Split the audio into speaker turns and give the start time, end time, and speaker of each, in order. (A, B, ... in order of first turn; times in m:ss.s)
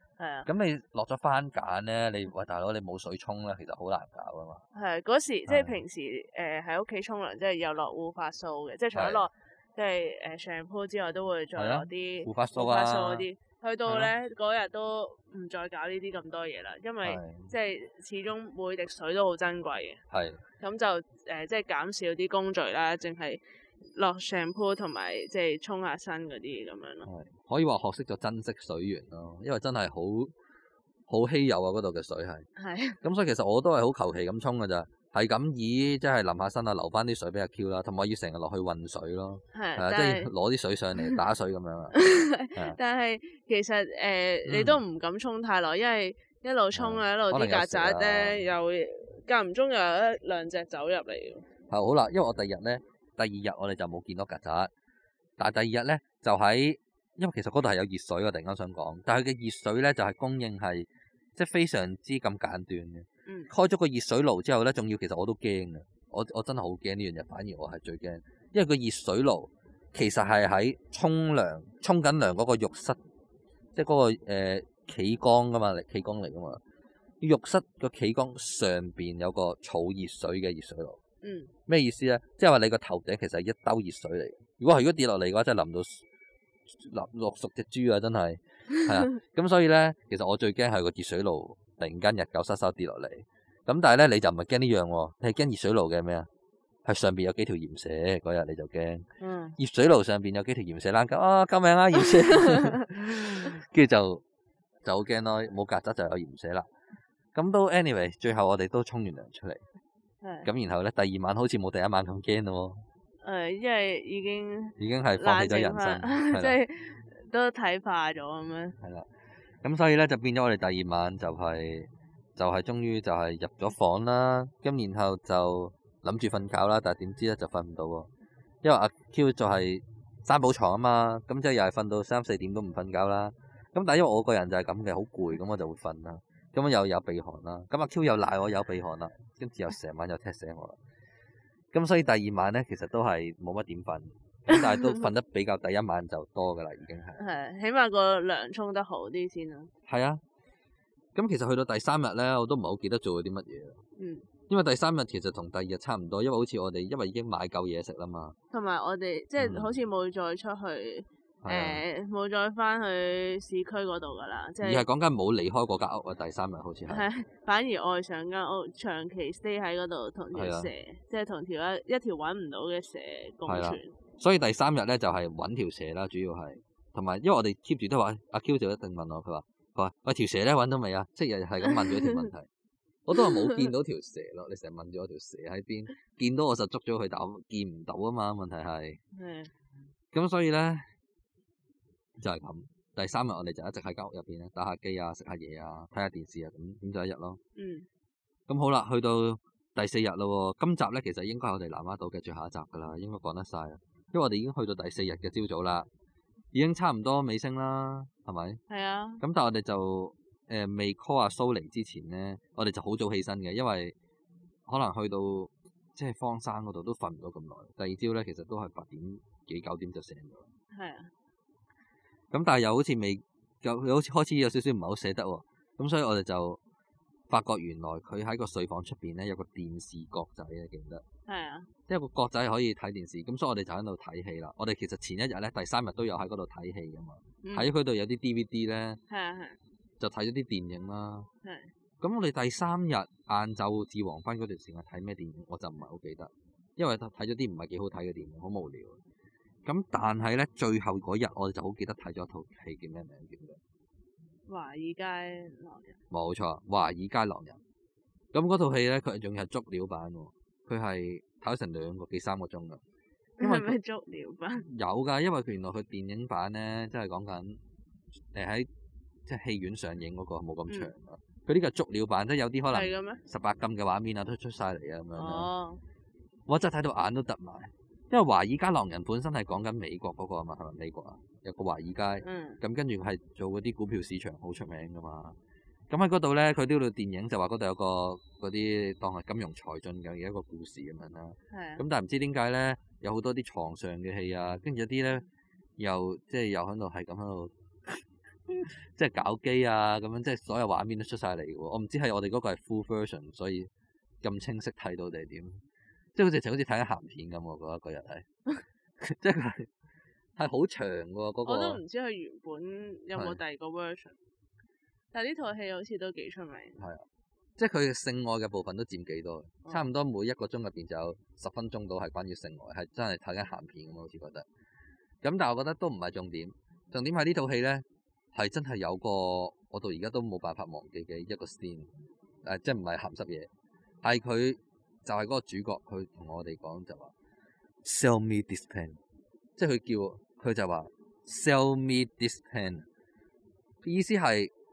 0:00.2-0:00.5 A
0:00.5-0:04.6 B
0:04.7-0:20.0 A
0:05.5-0:05.8 B
0:08.9-0:09.3 B
0:11.6-0:13.3 B
0:13.8-0:14.1 B
0:17.0-0:17.5 B
0:20.1-0:20.4 B
0:20.6-0:27.1 A
0:27.0-0:30.3 B
0:31.1-0:32.5 B
0:32.6-0:33.0 A
0:33.0-0:42.0 B
0:39.5-0:40.3 A
0:41.9-0:51.5 A
0:44.4-0:44.8 B
0:46.7-0:48.5 B
0:51.7-0:54.7 B
0:55.4-1:13.0 B
1:03.3-1:03.5 A
1:13.8-1:16.6 B
1:17.2-1:21.0 B
1:21.2-1:21.5 A
1:21.7-1:26.1 B
1:26.7-1:36.3 B
1:36.8-1:44.2 B
1:39.2-1:39.6 A
1:44.8-1:46.7 B
1:47.3-1:49.6 B
1:50.2-1:50.5 A
1:50.4-1:52.8 B
1:53.2-1:58.8 A
1:54.8-1:56.6 B
1:58.8-1:59.1 B
1:59.6-2:08.1 B
2:08.6-2:20.8 B
2:21.7-2:27.2 B
2:24.5-2:25.0 A
2:27.2-2:29.7 A
2:29.9-2:30.2 B
2:31.2-2:33.8 B
2:34.0-2:34.3 A
2:34.5-2:38.4 B
2:38.5-2:44.8 A
2:39.4-2:39.8 B
2:41.4-2:41.8 B
2:44.6-2:47.0 B
2:46.9-2:53.9 A
2:50.3-2:50.7 B
2:53.4-3:02.5 B
3:01.9-3:02.1 A
3:03.1-3:09.0 B
3:09.1-3:09.5 A
3:10.1-3:10.8 B
3:12.2-3:17.4 B
3:17.6-3:17.9 A
3:18.5-3:25.9 B
3:26.5-3:28.6 B
3:28.7-3:29.2 A
3:29.2-3:34.0 B
3:34.7-3:40.5 B
3:40.7-3:41.1 A
3:42.3-3:46.6 B
3:47.3-3:51.0 B
3:51.3-3:51.7 A
3:51.9-3:59.0 B
3:57.4-3:57.7 A
3:59.1-3:59.6 A
4:00.0-4:01.3 B
4:01.4-4:01.7 A
4:02.0-4:09.0 B
4:09.6-4:13.6 B
4:14.5-4:16.0 A
4:16.1-4:17.6 B
4:18.3-4:22.8 B
4:23.4-4:24.6 A
4:23.4-4:23.8 B
4:24.6-4:27.6 B
4:28.3-4:28.7 B
4:29.3-4:35.5 B
4:32.7-4:33.2 A
4:35.2-4:35.8 A
4:36.5-4:45.4 B
4:42.2-4:42.6 A
4:45.9-4:55.3 B
4:51.5-4:51.8 A
4:55.8-5:03.7 B
5:04.2-5:05.6 B
5:06.2-5:08.3 B
5:09.0-5:09.7 B
5:10.4-5:11.8 B
5:11.4-5:14.2 A
5:15.1-5:16.8 A
5:16.8-5:17.0 B
5:17.6-5:24.5 B
5:25.2-5:31.9 B
5:32.4-5:33.5 B
5:34.0-5:37.1 B
5:37.8-5:39.0 B
5:39.6-5:42.9 B
5:43.8-5:44.5 B